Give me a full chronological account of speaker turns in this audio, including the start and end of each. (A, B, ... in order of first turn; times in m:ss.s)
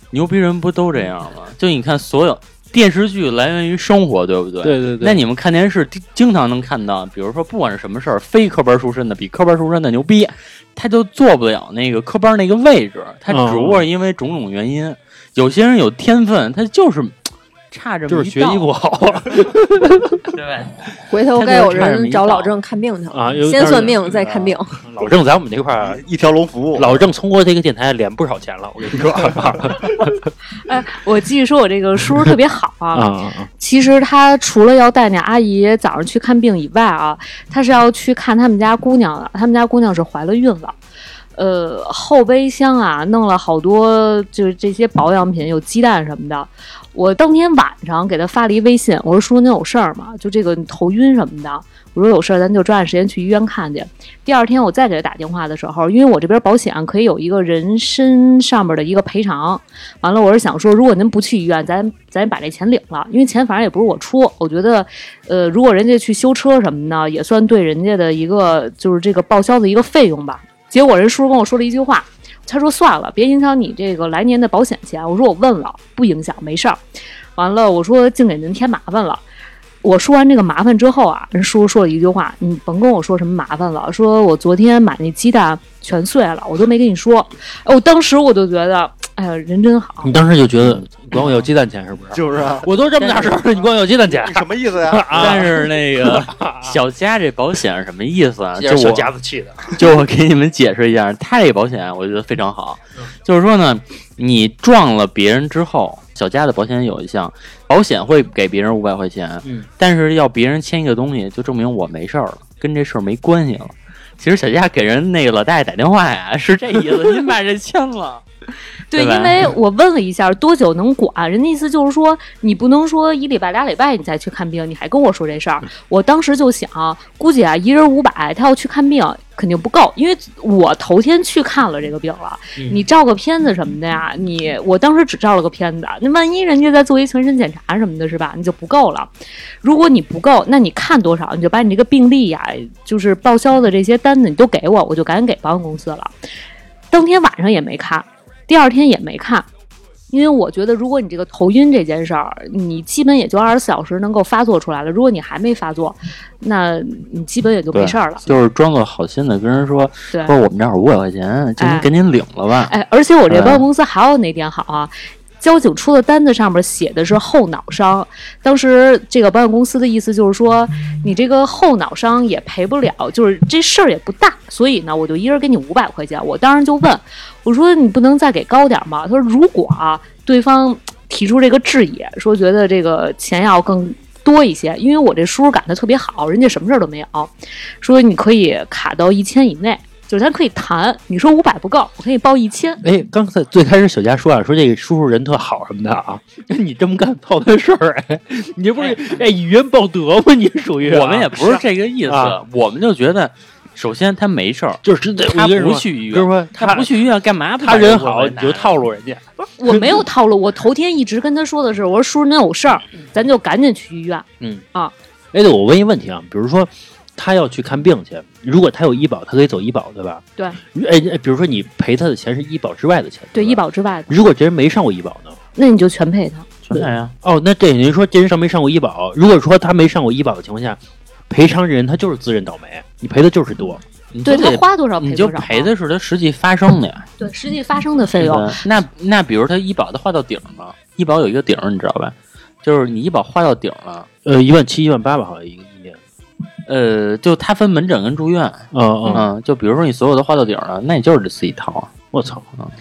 0:00.1-0:18.7 A
0:04.6-0:05.2 B
0:13.3-0:13.8 B
0:18.1-0:20.3 B
0:20.3-0:22.6 A
0:21.1-0:24.8 C
0:23.1-0:26.0 B
0:25.8-0:27.0 D
0:26.8-0:30.2 B
0:30.6-0:33.1 E
0:32.9-0:33.5 B
0:33.6-0:40.8 E
0:41.4-1:16.8 E
1:17.4-1:19.2 E
1:19.8-1:30.1 E
1:30.0-1:36.8 B
1:30.6-1:31.4 A
1:32.1-1:32.7 D
1:33.0-1:33.4 A
1:34.1-1:35.5 D
1:35.1-1:39.1 A
1:38.6-1:39.9 B
1:39.7-1:58.2 A
1:58.9-2:19.1 E
1:58.9-1:59.5 A
2:12.6-2:12.8 B
2:19.6-2:26.1 E
2:26.9-2:29.5 E
2:30.1-2:38.3 E
2:37.7-2:42.7 A
2:41.6-2:41.9 E
2:42.7-3:12.8 E
2:43.3-2:43.6 A
3:12.8-3:22.4 B
3:20.8-3:28.7 A
3:24.8-3:27.0 B
3:27.6-3:30.0 B
3:29.4-3:34.9 E
3:35.3-3:45.4 B
3:43.3-3:44.1 E
3:45.6-3:46.5 E
3:46.6-3:47.1 A
3:46.7-3:53.8 B
3:54.1-3:57.1 A
3:54.2-3:55.7 E
3:57.2-3:58.6 E
3:58.2-4:04.1 A
4:04.2-4:06.0 B
4:06.7-4:11.9 A
4:08.7-4:09.2 B
4:12.1-4:12.4 B